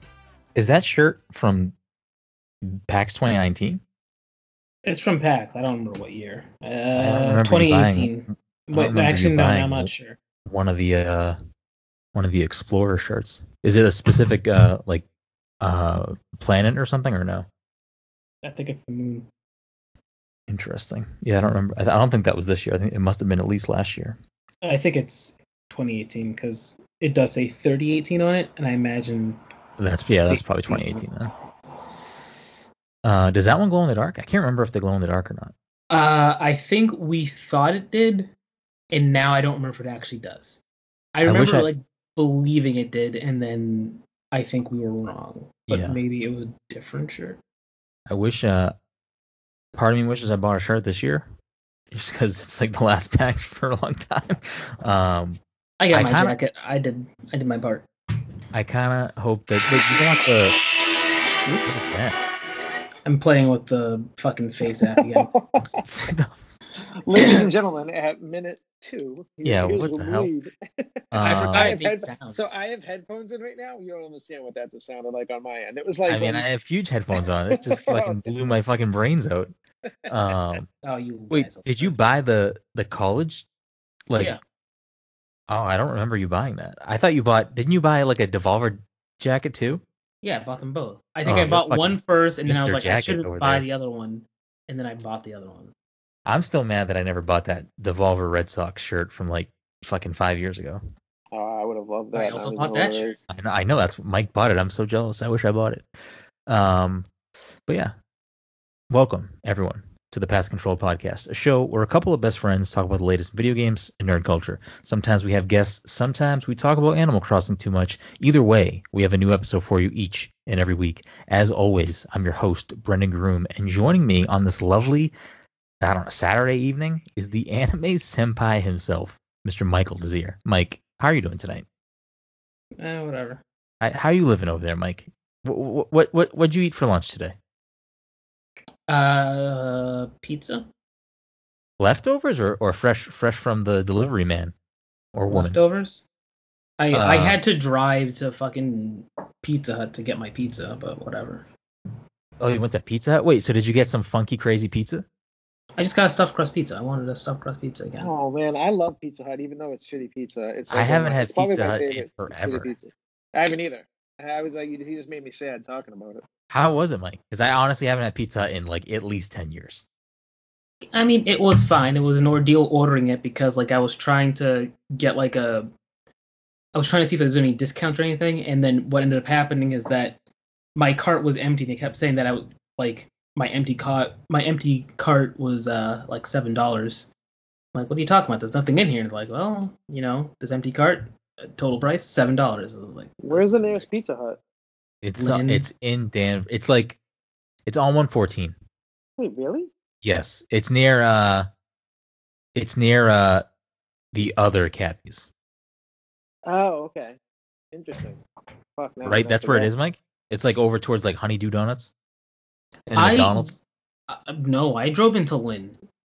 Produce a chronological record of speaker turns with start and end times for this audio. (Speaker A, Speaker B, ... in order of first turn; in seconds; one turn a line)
Speaker A: 0.5-1.7
Speaker A: 2.6-3.8
Speaker B: 4.8-10.2
Speaker A: 7.0-9.9
Speaker A: 10.4-11.4
Speaker A: 12.1-15.1
Speaker A: 15.6-17.5
Speaker B: 18.4-19.3
Speaker A: 20.5-24.2
Speaker B: 24.6-29.4
Speaker A: 29.8-31.3
Speaker B: 30.3-31.0
Speaker A: 33.0-35.5
Speaker B: 35.9-38.3
Speaker B: 38.9-40.6
Speaker B: 41.1-47.4
Speaker A: 41.2-41.7
Speaker A: 45.7-46.0
Speaker A: 48.1-48.7
Speaker A: 49.7-51.3
Speaker A: 51.9-55.4
Speaker B: 55.8-57.9
Speaker A: 55.9-56.4
Speaker A: 58.5-60.6
Speaker B: 61.4-61.8
Speaker A: 61.7-62.2
Speaker B: 63.0-65.3
Speaker C: 64.9-66.1
Speaker A: 65.9-66.3
Speaker C: 67.1-70.5
Speaker A: 69.4-70.3
Speaker A: 71.1-71.8
Speaker C: 71.2-76.5
Speaker B: 71.2-72.6
Speaker A: 76.1-79.5
Speaker C: 77.6-78.3
Speaker C: 80.0-80.6
Speaker A: 80.1-80.7
Speaker B: 80.8-82.0
Speaker A: 81.3-83.5
Speaker A: 84.1-84.4
Speaker A: 85.5-89.8
Speaker B: 90.2-95.7
Speaker A: 91.2-93.6
Speaker A: 96.2-100.8
Speaker C: 101.3-103.2
Speaker B: 102.1-103.2
Speaker A: 103.3-105.8
Speaker A: 106.5-107.1
Speaker A: 107.7-107.9
Speaker A: 108.9-125.1
Speaker A: 125.8-131.6
Speaker B: 132.8-133.4
Speaker A: 133.8-137.4
Speaker B: 138.9-140.7
Speaker A: 141.8-144.5
Speaker A: 145.1-145.6
Speaker B: 145.3-146.1
Speaker B: 146.8-151.4
Speaker A: 146.9-147.4
Speaker A: 152.4-155.1
Speaker B: 155.8-158.1
Speaker C: 158.0-166.2
Speaker A: 160.7-162.7
Speaker A: 166.5-169.8
Speaker B: 170.9-175.7
Speaker B: 176.7-180.2
Speaker B: 180.8-187.1
Speaker B: 187.7-193.9
Speaker C: 193.2-194.4
Speaker A: 195.0-197.0
Speaker B: 195.2-195.7
Speaker A: 197.7-198.6
Speaker C: 199.2-199.7
Speaker A: 200.0-201.5
Speaker A: 202.6-203.4
Speaker A: 204.1-205.3
Speaker C: 206.4-207.2
Speaker C: 207.7-208.2
Speaker C: 208.8-209.7
Speaker A: 209.0-211.9
Speaker B: 212.9-213.5
Speaker A: 212.9-213.6
Speaker B: 214.1-215.8